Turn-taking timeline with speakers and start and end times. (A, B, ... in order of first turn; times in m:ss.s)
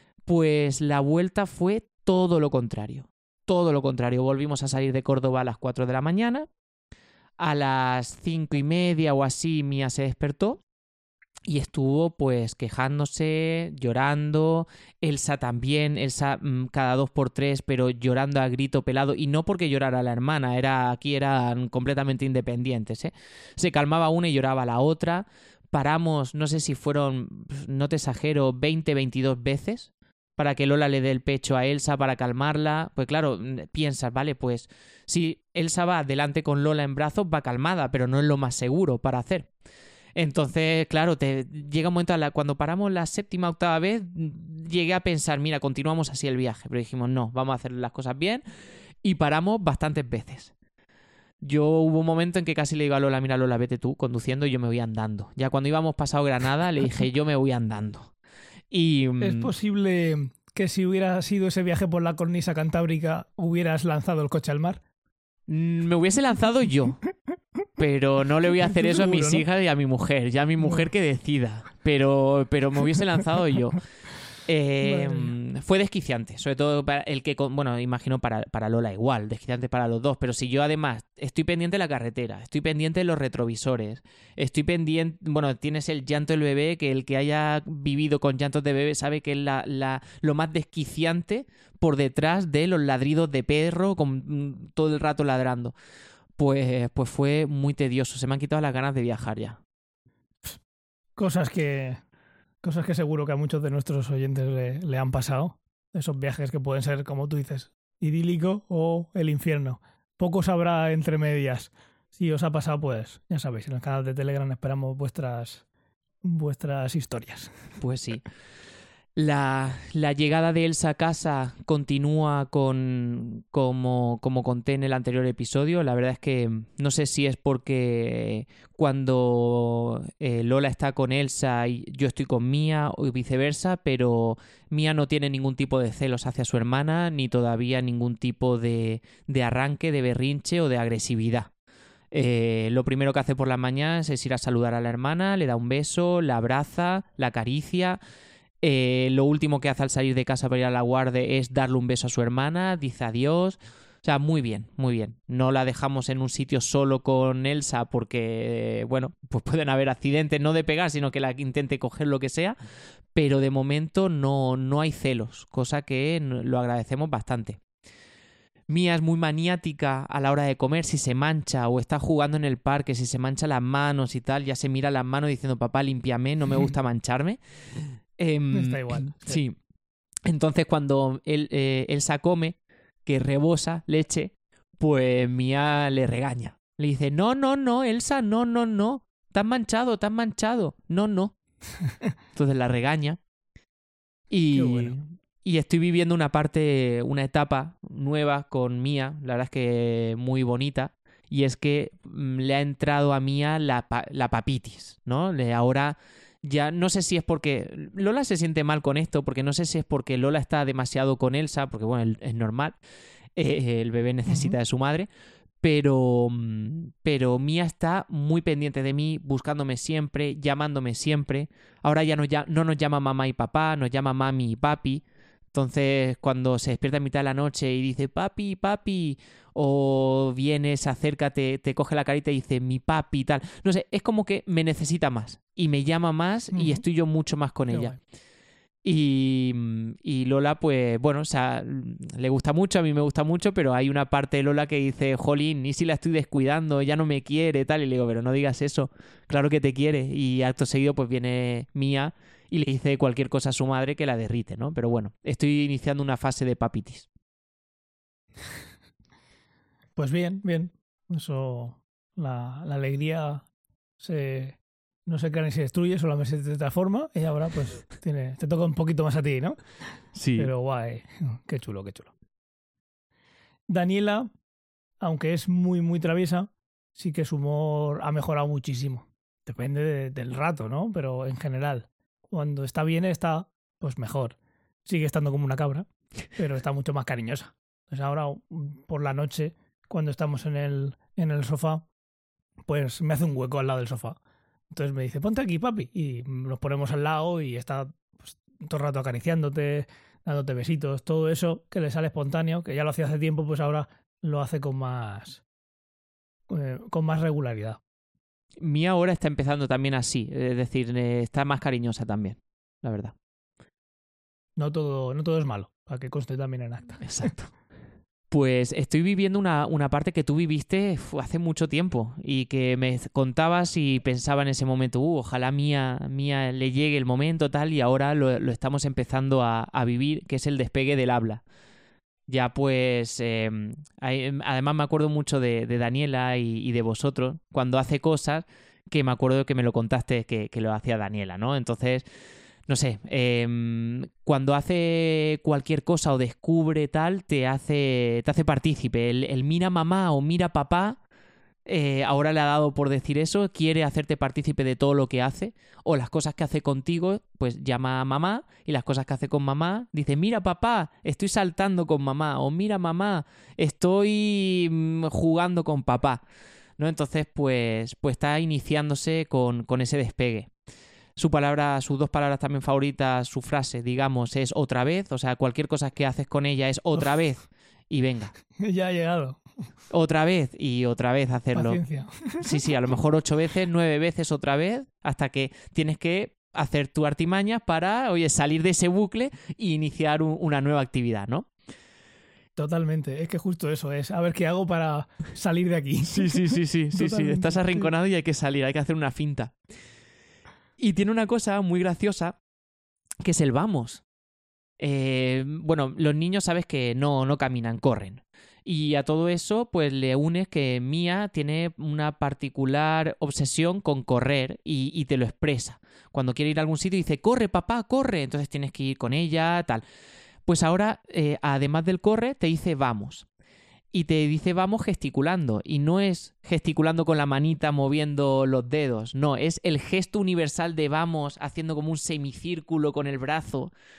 0:00.2-0:06.5 A
0:07.4-0:10.6 A
0:11.5-0:39.5 A
0:40.2-0:48.4 A
0:49.0-0:50.5 A
0:51.4-0:58.1 A
0:58.7-0:59.5 A
0:59.2-1:04.8 B
1:05.5-1:07.0 A
1:07.8-1:13.8 A
1:08.7-1:09.4 B
1:10.6-1:10.9 B
1:14.4-1:35.8 A
1:14.8-1:15.3 B
1:36.4-1:39.6 A
1:41.2-1:42.0 B
1:42.6-1:55.6 B
1:56.2-1:57.5 B
1:57.8-1:58.2 A
1:59.2-2:21.5 A
2:22.1-2:28.0 A
2:28.6-2:42.6 A
2:43.2-2:47.6 A
2:48.7-2:59.6 A
2:58.5-2:59.4 B
3:00.2-3:11.3 A
3:12.3-3:13.2 A
3:14.3-3:32.8 A
3:14.5-3:15.0 B
3:33.3-3:35.1 A
3:34.3-3:34.6 B
3:35.6-3:58.0 A
3:56.5-3:56.8 B
3:57.7-3:58.0 B
3:58.8-4:17.1 A
4:20.0-4:23.4 B
4:24.0-4:29.6 B
4:30.1-4:30.5 A
4:30.4-4:32.1 B
4:33.7-4:34.3 B
4:35.0-4:51.8 B
4:52.7-4:54.2 B
4:54.7-5:05.4 B
5:06.5-5:07.8 B
5:08.6-5:13.1 A
5:14.6-5:17.4 B
5:17.0-5:17.5 A
5:18.3-5:31.4 A
5:32.3-5:42.0 A
5:42.7-5:51.0 A
5:51.7-6:06.2 A
6:06.8-6:10.5 A
6:11.2-6:18.3 A
6:18.6-6:19.4 B
6:19.9-6:21.8 A
6:21.5-6:22.5 B
6:22.4-6:31.5 A
6:32.6-6:37.9 B
6:36.1-6:39.5 A
6:40.8-6:42.4 A
6:43.2-6:44.0 A
6:44.8-6:59.8 A
7:00.5-7:03.2 A
7:03.9-7:13.7 A